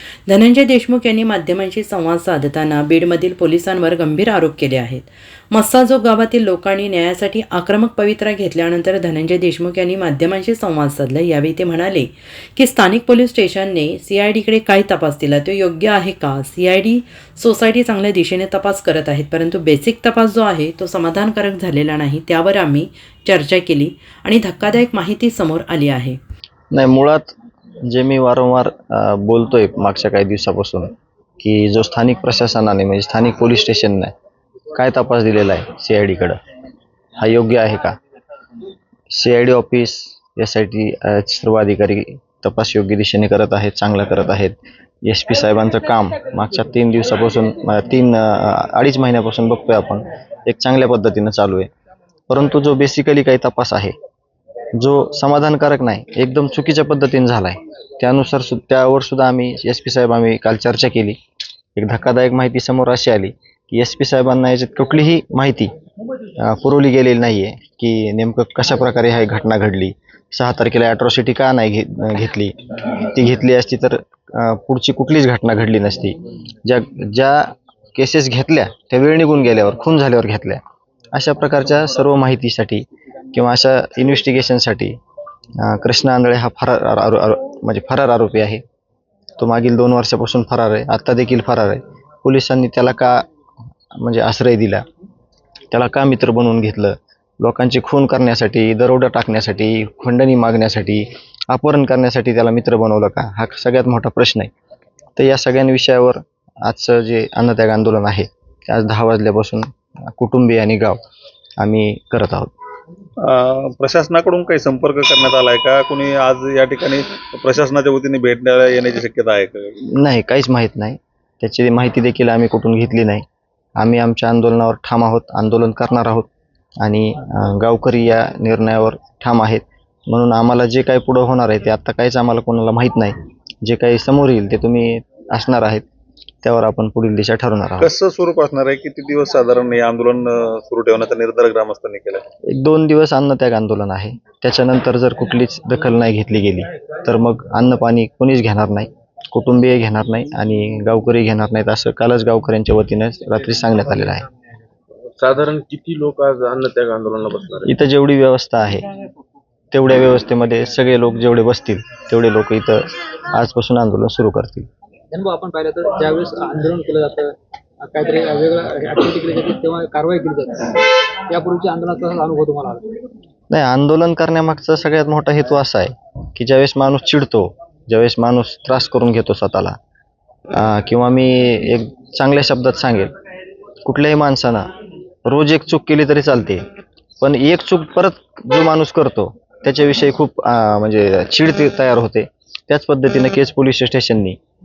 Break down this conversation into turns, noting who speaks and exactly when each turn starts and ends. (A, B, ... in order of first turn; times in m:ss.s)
0:00.3-0:26.2 A
0:26.7-0:27.3 B
0:27.9-0:34.1 B
0:34.7-0:36.4 B
0:37.2-0:38.0 B
0:39.1-0:51.7 B
0:52.3-0:53.9 B
0:54.8-1:01.2 B
1:01.8-1:05.7 B
1:06.4-1:20.6 B
1:21.1-1:25.0 B
1:25.6-1:28.6 B
1:29.4-1:33.2 B
1:34.0-1:34.8 B
1:35.7-1:44.5 B
1:45.2-1:51.0 B
1:51.6-1:52.5 B
1:53.2-1:59.8 C
1:59.9-2:03.2 B
2:03.8-2:06.3 B
2:06.8-2:15.8 B
2:16.4-2:17.9 B
2:17.8-2:22.2 C
2:22.5-2:34.3 B
2:35.2-2:37.7 D
2:37.7-2:38.9 B
2:39.7-2:44.7 B
2:45.1-2:52.9 E
2:53.5-2:59.8 B
3:00.5-3:03.1 B
3:03.8-3:04.7 B
3:05.2-3:06.6 B
3:07.2-3:14.4 B